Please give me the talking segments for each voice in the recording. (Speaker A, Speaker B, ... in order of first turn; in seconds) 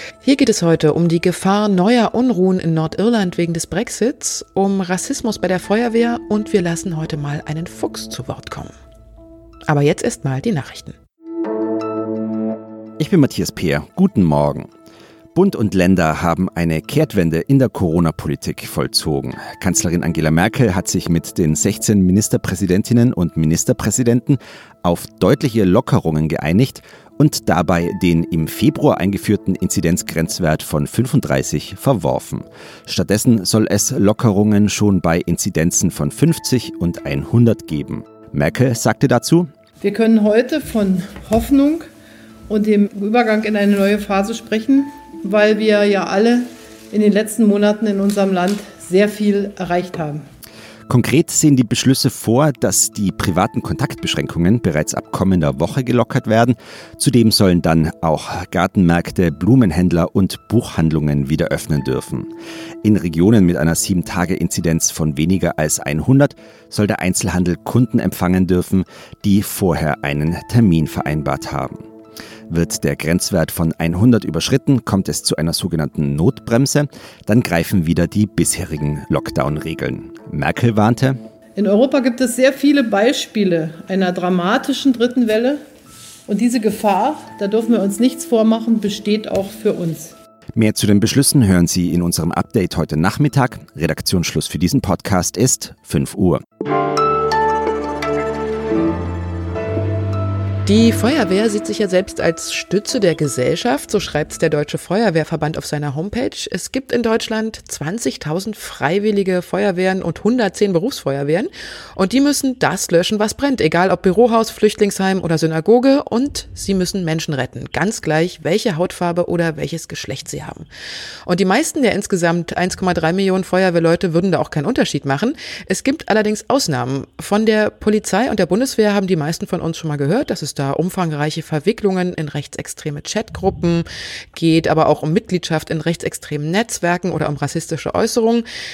Speaker A: 0.2-8.7, 9.7-10.9, 100.7-120.7, 121.3-138.4
Speaker B: 13.0-14.7, 15.3-39.5, 50.9-62.3, 62.8-71.8, 72.5-81.2, 90.5-96.4
Speaker C: 39.8-41.9, 42.5-50.3, 81.6-85.6, 86.3-90.2